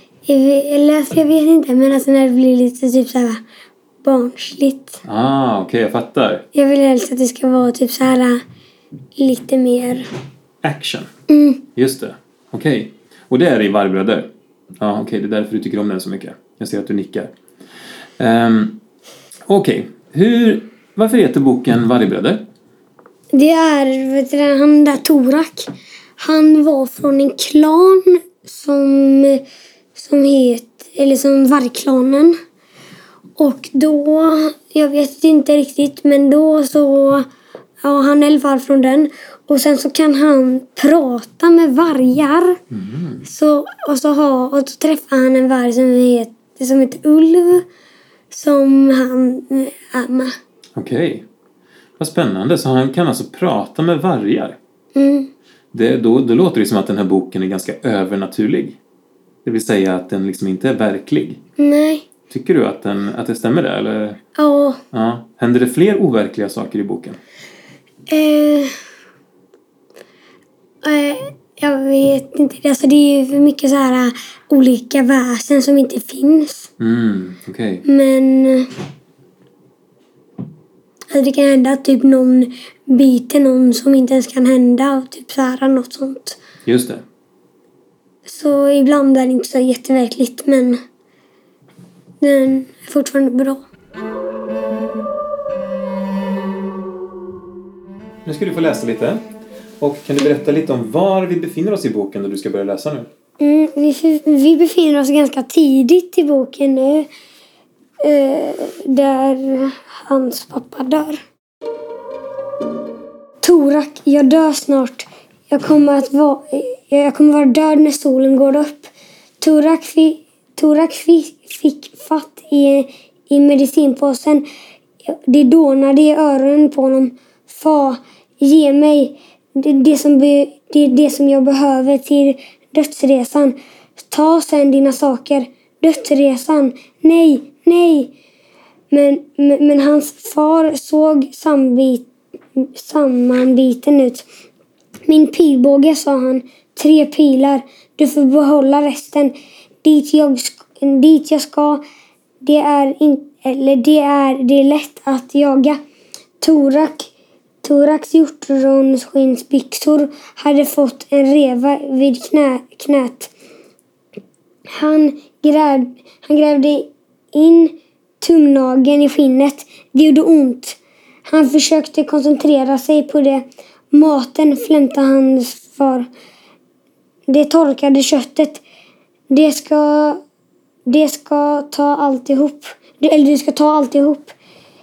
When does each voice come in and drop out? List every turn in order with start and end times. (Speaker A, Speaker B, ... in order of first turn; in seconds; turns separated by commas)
Speaker A: 0.3-3.4, Speaker A: 4.0-5.0, Speaker B: 5.0-6.4, Speaker A: 6.5-8.4, Speaker A: 9.2-10.1, Speaker B: 10.6-11.1, Speaker A: 11.3-11.6, Speaker B: 11.8-17.3, Speaker B: 18.2-18.8, Speaker B: 19.5-22.4, Speaker A: 23.3-29.4, Speaker A: 29.9-32.3, Speaker A: 33.4-37.3, Speaker A: 37.8-42.6, Speaker B: 42.7-43.3, Speaker A: 43.2-47.6, Speaker A: 48.3-50.3, Speaker B: 50.8-51.2, Speaker B: 52.0-54.6, Speaker A: 54.9-55.3, Speaker B: 55.7-58.8, Speaker B: 59.4-61.4, Speaker A: 61.6-62.0, Speaker B: 62.3-64.2, Speaker A: 64.3-64.8, Speaker B: 64.9-67.2, Speaker A: 68.1-68.7, Speaker A: 70.8-76.7, Speaker B: 76.8-77.8, Speaker A: 77.8-78.7, Speaker A: 81.1-86.4, Speaker B: 86.7-87.0, Speaker A: 88.2-90.8, Speaker A: 92.2-93.6, Speaker B: 98.2-99.2, Speaker B: 99.8-103.1, Speaker A: 103.4-107.1, Speaker A: 108.0-111.2, Speaker A: 113.4-124.5, Speaker A: 125.0-138.1, Speaker A: 138.9-144.3, Speaker A: 145.1-151.8, Speaker A: 152.4-155.8, Speaker A: 156.4-157.1, Speaker A: 157.6-163.3, Speaker A: 164.7-176.1, Speaker A: 177.3-178.6, Speaker A: 179.3-180.2, Speaker A: 180.9-184.3